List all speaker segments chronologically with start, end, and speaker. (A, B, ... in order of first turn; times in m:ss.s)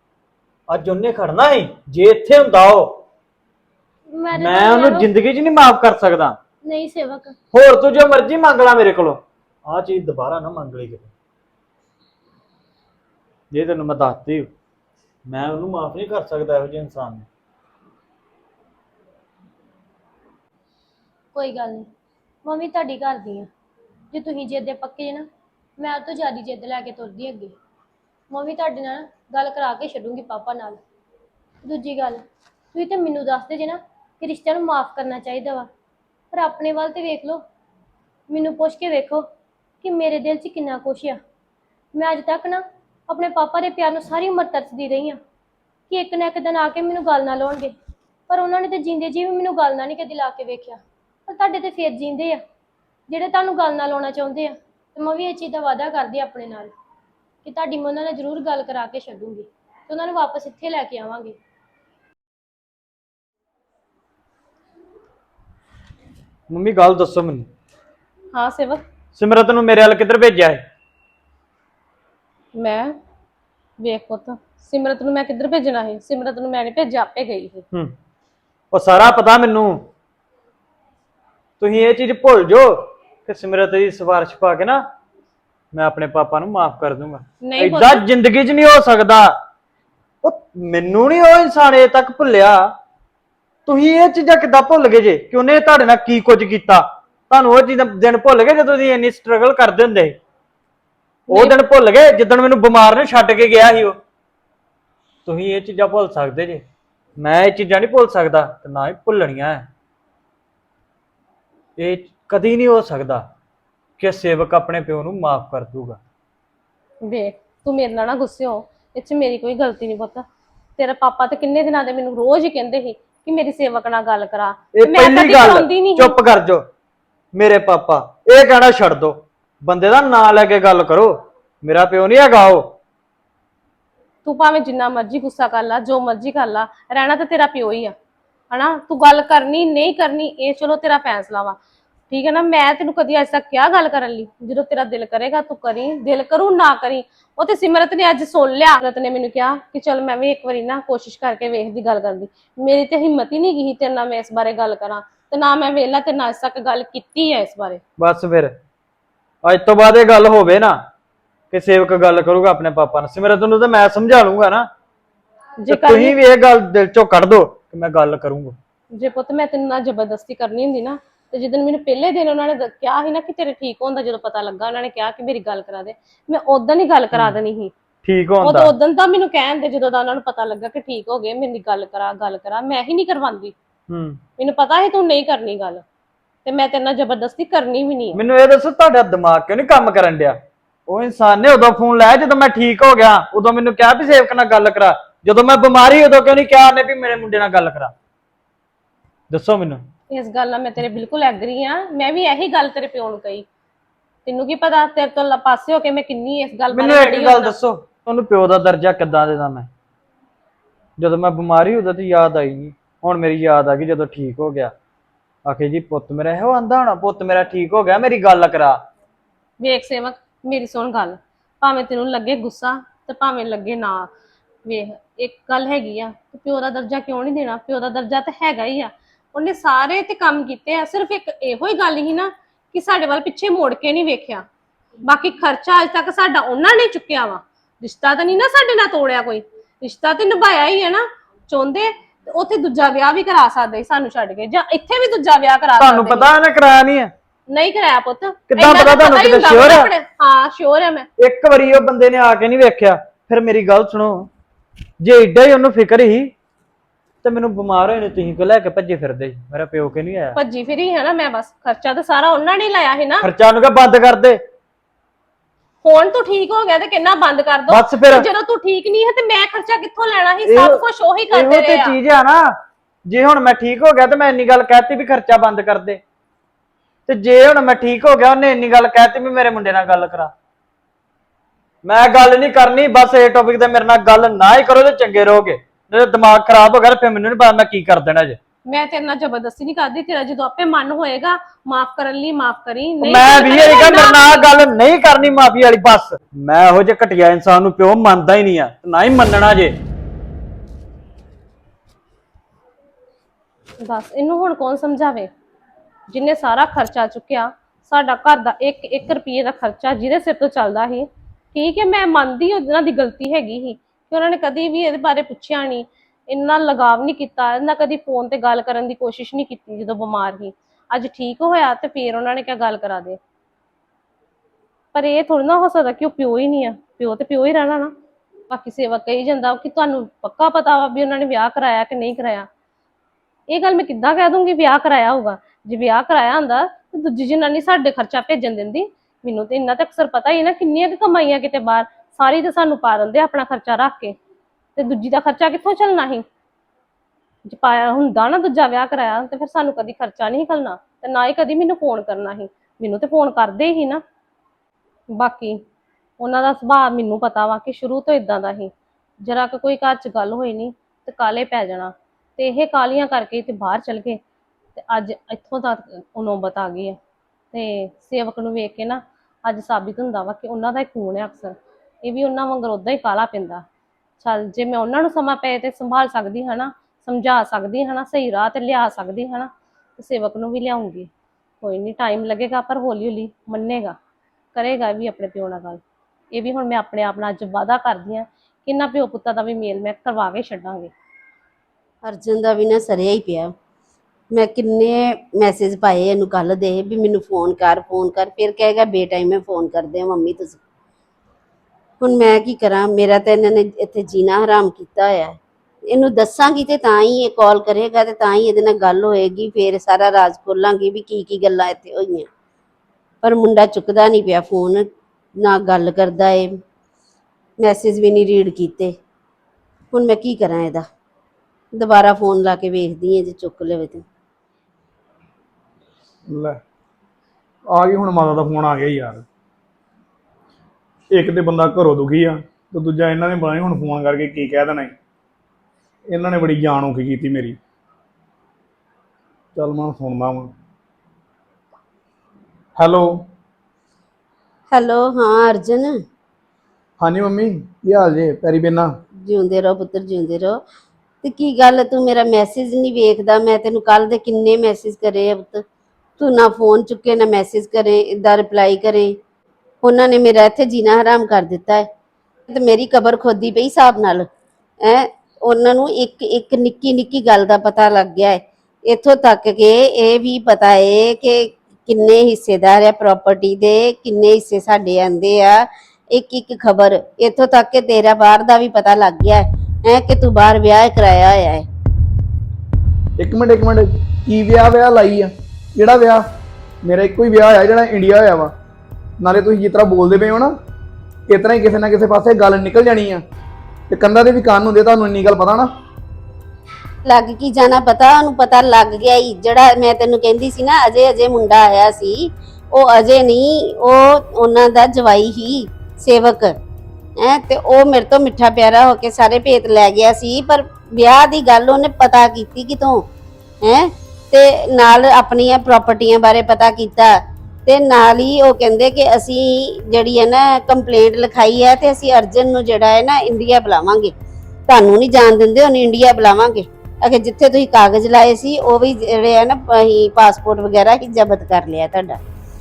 0:00.7-0:02.9 A
0:04.1-0:05.1 B
0:04.3-0:06.4 A
0:06.6-0:07.3 B
0:07.5-0:11.1 A
0:13.5-0:14.5 A
0:15.2-0:17.2 A
0:21.3-0:21.9 B
0:22.4-0:23.5 B
0:24.1-0:25.2 B
0:25.8-0:27.5 B
0:28.3-0:30.8 B
0:31.6-0:32.2 B
0:32.7-0:35.7 B
0:36.3-0:37.4 B
0:38.3-0:39.2 B
0:39.8-0:41.2 B
0:41.9-0:45.2 B
0:45.9-0:47.7 B
0:48.3-0:52.4 B
0:53.1-0:56.7 B
0:57.4-1:01.4 B
1:06.5-1:07.5 A
1:08.3-1:08.8 C
1:09.1-1:10.6 A
1:12.5-1:12.9 C
1:13.8-1:17.6 C
1:18.7-1:19.8 A
1:21.6-1:24.8 A
1:25.7-1:29.3 A
1:27.4-1:28.0 C
1:30.2-1:32.6 A
1:33.6-1:40.1 A
1:41.3-1:41.5 C
1:41.3-1:44.0 A
1:45.2-1:46.6 A
1:47.2-1:49.6 A
1:51.8-1:53.2 A
1:54.0-1:56.0 A
1:57.0-2:00.2 C
2:00.8-2:06.2 C
2:04.7-2:06.6 A
2:07.3-2:11.1 A
2:11.6-2:12.6 A
2:14.2-2:17.9 C
2:18.5-2:21.6 C
2:22.1-2:37.8 C
2:38.0-2:38.5 A
2:39.4-2:40.7 A
2:41.5-2:44.7 A
2:45.6-2:46.2 C
2:45.7-2:48.6 A
2:48.9-2:57.7 C
2:58.0-2:58.7 A
2:58.4-3:03.5 C
3:03.9-3:04.2 A
3:04.4-3:05.8 C
3:06.4-3:08.2 C
3:08.1-3:17.9 A
3:19.3-3:19.8 A
3:20.1-3:23.4 C
3:24.2-3:27.6 C
3:26.7-3:29.7 A
3:31.0-3:34.7 A
3:35.4-3:38.8 A
3:39.6-3:44.1 C
3:44.6-3:54.4 C
3:55.1-4:06.3 C
4:05.8-4:07.1 A
4:07.5-4:11.1 C
4:08.5-4:09.9 A
4:11.2-4:14.3 A
4:15.0-4:16.3 A
4:17.2-4:20.4 A
4:20.4-4:23.3 C
4:23.2-4:24.4 A
4:25.8-4:32.0 C
4:27.7-4:28.3 A
4:30.4-4:32.5 A
4:33.0-4:36.0 A
4:37.1-4:40.3 A
4:41.8-4:48.4 A
4:48.7-4:54.6 C
4:53.0-4:59.7 A
5:03.8-5:05.3 C
5:06.1-5:23.2 C
5:24.9-5:27.9 C
5:28.5-5:32.5 C
5:33.5-5:44.2 C
5:44.8-5:46.2 C
5:47.4-5:54.0 C
5:55.1-5:55.6 C
5:56.2-5:58.7 C
5:59.2-6:04.2 C
6:04.8-6:07.0 C
6:07.5-6:13.6 C
6:14.2-6:21.1 C
6:21.6-6:24.0 C
6:24.5-6:25.8 C
6:26.3-6:30.9 C
6:32.0-6:33.5 D
6:34.3-6:40.6 D
6:42.0-6:45.4 D
6:45.9-6:52.3 D
6:53.2-6:54.8 D
6:55.4-6:56.5 D
6:57.6-6:58.9 D
6:59.9-7:00.8 D
7:01.7-7:04.0 D
7:06.3-7:06.6 E
7:07.7-7:09.2 E
7:11.1-7:14.9 E
7:16.1-7:17.6 E
7:19.5-7:20.5 E
7:22.8-7:23.1 E
7:24.7-7:26.0 D
7:27.0-7:28.9 E
7:29.2-7:30.6 D
7:31.2-7:35.6 D
7:36.2-7:39.1 D
7:39.8-7:41.8 D
7:42.5-7:44.3 D
7:44.8-8:01.6 D
8:03.2-8:06.2 E
8:06.8-8:08.5 E
8:09.2-8:10.5 E
8:11.3-8:13.2 E
8:13.9-8:15.7 E
8:17.0-8:26.5 D
8:27.2-8:33.0 D
8:33.6-8:44.1 D
8:44.7-8:52.2 D